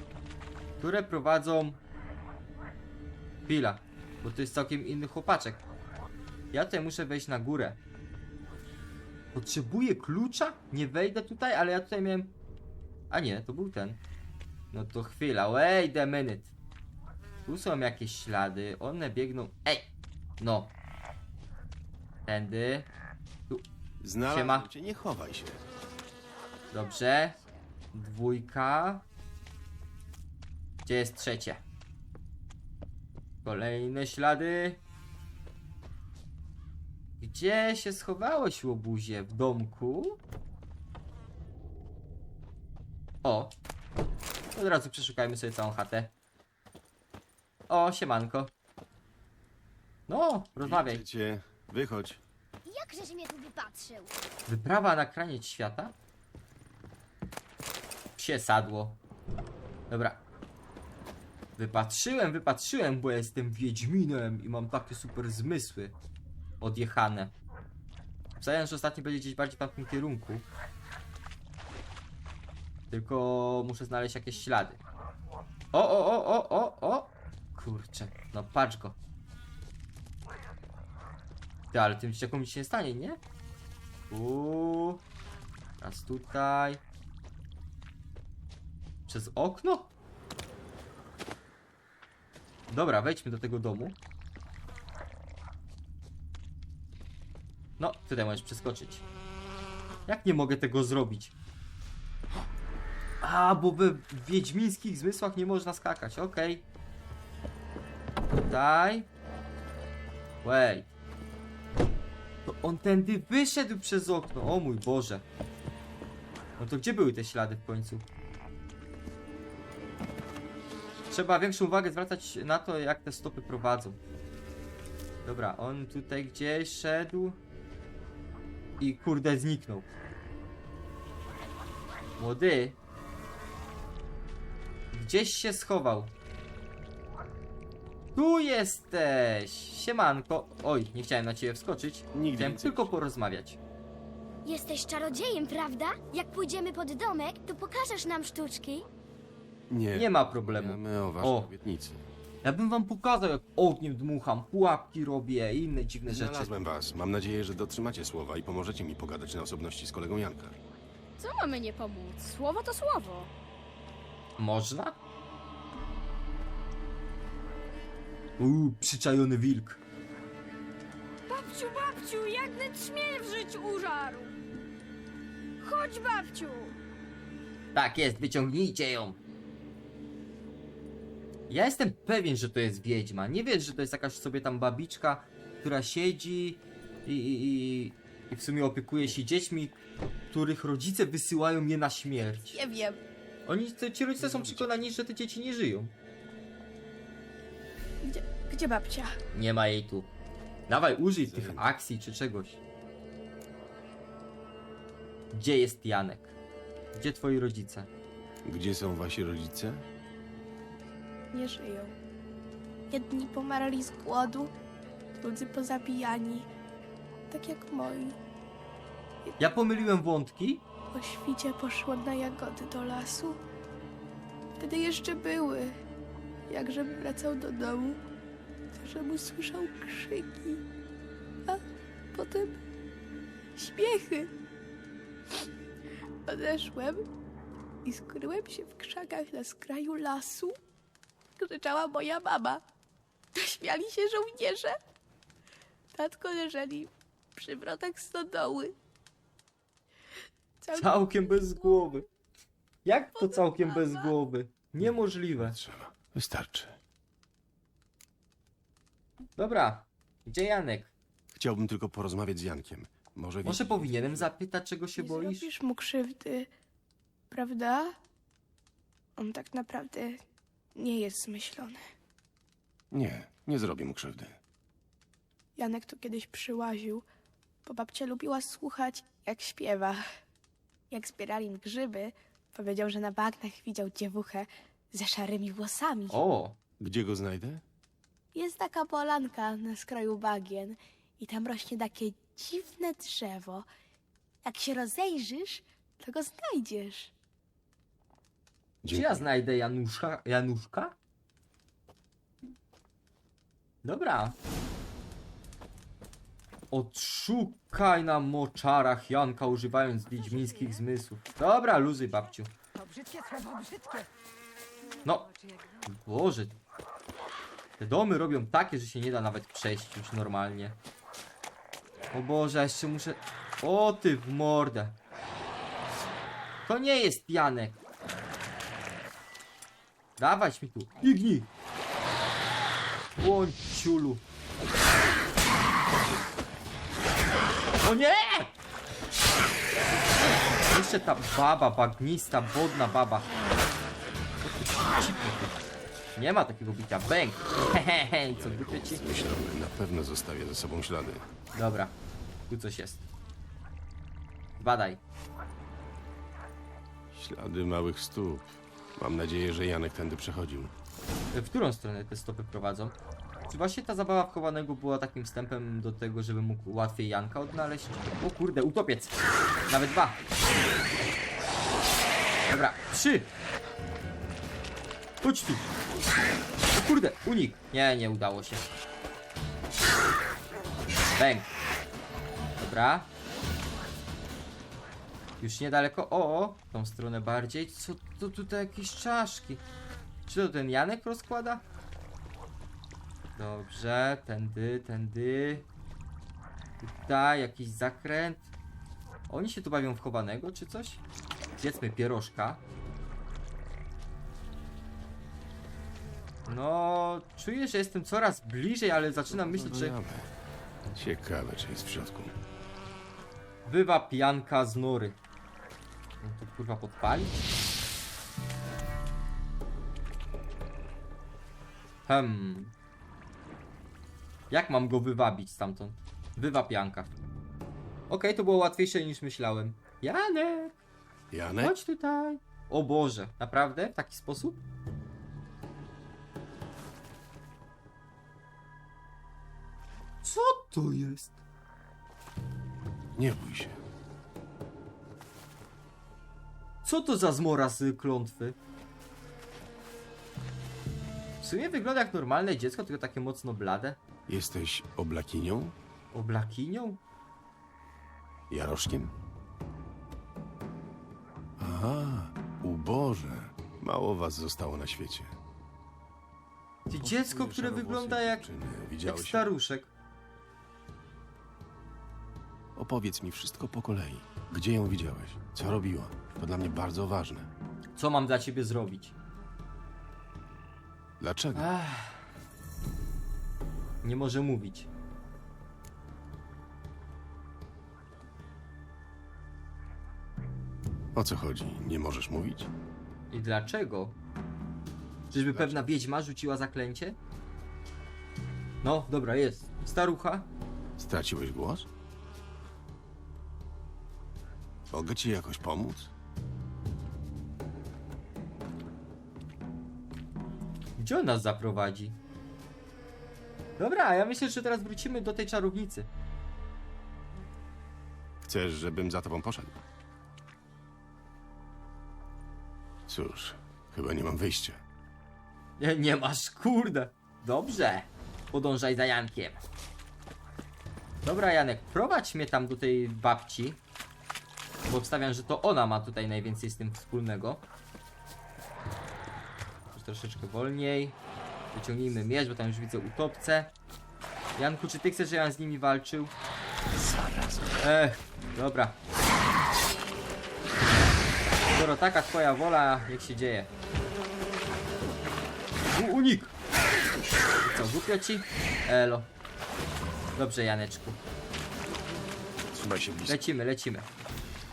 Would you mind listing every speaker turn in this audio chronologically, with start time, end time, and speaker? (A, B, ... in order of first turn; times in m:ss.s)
0:00.8-0:01.8 A
0:03.5-0:05.6 A
0:06.5-0:07.8 A
0:09.3-0:12.3 A
0:13.1-0:14.0 A
0:14.7-0:16.5 A
0:17.5-0:20.7 A
0:22.3-0:22.9 A
0:24.0-0:25.6 B
0:24.3-0:24.7 A
0:26.7-0:27.4 A
0:27.9-0:29.0 A
0:30.8-0:31.6 A
0:33.4-0:34.8 A
0:37.2-0:40.2 A
0:43.2-0:43.6 A
0:44.6-0:46.1 A
0:47.7-0:48.5 A
0:50.1-0:51.0 A
0:50.6-0:52.2 B
0:52.7-0:54.1 C
0:54.5-0:56.0 A
0:58.2-0:59.0 A
0:59.9-1:00.2 A
1:01.6-1:05.9 A
1:06.6-1:07.3 A
1:08.4-1:10.5 A
1:12.9-1:14.8 A
1:15.7-1:19.0 A
1:21.7-1:23.2 A
1:24.1-1:25.0 A
1:25.8-1:26.8 A
1:29.1-1:29.9 A
1:32.7-1:34.0 A
1:37.8-1:39.0 A
1:40.1-1:41.3 A
1:43.2-1:46.6 A
1:48.5-1:49.1 A
1:50.4-1:50.9 A
1:52.4-1:55.2 A
1:56.6-1:58.0 A
2:01.1-2:04.0 A
2:05.2-2:07.4 A
2:08.8-2:09.9 A
2:12.2-2:12.8 A
2:14.9-2:16.1 A
2:18.2-2:23.6 A
2:22.1-2:23.0 B
2:24.4-2:28.9 C
2:29.7-2:32.0 B
2:30.0-2:31.5 A
2:32.4-2:36.5 A
2:36.1-2:40.6 B
2:41.2-2:43.3 D
2:44.4-2:45.0 A
2:48.4-2:49.8 A
2:51.3-2:54.3 D
2:55.6-2:56.7 D
2:57.7-2:59.2 A
3:01.5-3:09.8 A
3:10.3-3:12.6 A
3:12.5-3:13.0 E
3:13.5-3:15.9 A
3:14.2-3:14.9 B
3:18.0-3:19.2 E
3:19.3-3:20.1 A
3:20.7-3:22.6 A
3:21.2-3:21.7 B
3:25.3-3:26.4 A
3:26.9-3:27.9 A
3:28.4-3:29.8 B
3:31.3-3:32.0 E
3:32.9-3:34.5 E
3:35.2-3:36.5 E
3:37.3-3:38.2 E
3:39.4-3:40.6 A
3:40.9-3:43.4 E
3:44.6-3:45.8 E
3:46.5-3:48.0 E
3:48.7-3:50.6 E
3:52.1-3:52.6 E
3:53.6-3:54.3 E
3:56.3-3:57.0 E
3:57.8-4:00.6 E
4:01.4-4:02.6 E
4:03.4-4:04.8 E
4:05.9-4:08.7 E
4:10.6-4:12.0 E
4:10.8-4:12.0 A
4:12.8-4:15.6 A
4:13.2-4:14.1 E
4:14.8-4:16.8 B
4:19.4-4:20.9 A
4:21.3-4:24.3 B
4:23.4-4:25.5 A
4:25.0-4:26.5 E
4:27.3-4:28.0 E
4:29.2-4:30.2 E
4:30.8-4:31.8 E
4:32.9-4:34.4 B
4:35.6-4:37.0 E
4:37.7-4:40.0 E
4:40.9-4:46.2 E
4:46.1-4:46.6 A
4:46.8-4:47.6 B
4:48.4-4:53.7 E
4:54.4-4:57.1 E
4:58.8-4:59.3 B
4:58.9-5:01.0 A
5:03.8-5:04.4 A
5:06.7-5:12.5 A
5:10.1-5:10.8 F
5:12.8-5:14.1 F
5:15.0-5:15.9 F
5:15.9-5:16.6 A
5:17.8-5:20.8 A
5:22.1-5:25.0 A
5:26.7-5:27.8 A
5:30.2-5:31.5 A
5:33.2-5:34.2 A
5:37.8-5:38.5 A
5:40.7-5:43.3 A
5:44.6-5:45.5 A
5:46.2-5:49.0 A
5:48.3-5:51.3 B
5:51.6-5:51.9 A
5:52.5-5:53.0 A
5:54.6-5:55.0 A
5:57.1-6:00.7 B
6:01.3-6:02.9 A
6:03.5-6:09.2 A
6:09.7-6:10.2 A
6:12.5-6:13.3 A
6:15.2-6:15.6 A
6:16.7-6:18.7 A
6:21.2-6:21.5 A
6:22.6-6:23.1 A
6:25.4-6:29.6 A
6:30.3-6:31.6 A
6:33.4-6:35.7 A
6:36.8-6:38.5 A
6:39.3-6:41.0 A
6:41.6-6:42.6 A
6:46.5-6:50.0 A
6:49.3-6:50.3 B
6:50.9-6:52.4 B
6:53.7-6:55.2 A
6:56.2-6:57.5 A
7:02.1-7:02.7 A
7:04.5-7:07.1 A
7:08.1-7:10.8 A
7:11.3-7:11.8 B
7:11.6-7:14.6 A
7:20.2-7:21.4 A
7:23.2-7:23.8 B
7:26.8-7:28.6 A
7:31.4-7:34.0 A
7:34.3-7:35.8 B
7:36.1-7:37.0 A
7:38.5-7:39.1 B
7:41.6-7:45.4 B
7:46.9-7:48.5 A
7:47.0-7:49.5 B
7:49.0-7:49.9 A
7:52.8-7:57.5 B
7:58.0-7:59.1 A
8:01.2-8:01.7 B
8:01.5-8:02.2 A
8:04.0-8:04.9 A
8:11.2-8:12.7 B
8:13.3-8:14.2 A
8:15.3-8:16.0 B
8:15.3-8:17.2 A
8:18.8-8:20.5 A
8:21.0-8:21.9 B
8:24.9-8:26.1 B
8:31.0-8:32.2 A
8:33.8-8:36.1 A
8:38.5-8:39.8 B
8:43.1-8:44.8 B
8:45.8-8:49.6 A
8:51.2-8:53.8 A
8:54.9-8:57.6 A
8:59.9-9:01.2 A
9:01.7-9:03.7 A
9:04.6-9:06.3 A
9:07.8-9:09.0 A
9:11.7-9:13.7 A
9:16.0-9:16.5 A
9:17.6-9:19.3 A
9:20.4-9:21.2 A
9:22.7-9:23.4 B
9:23.3-9:24.1 A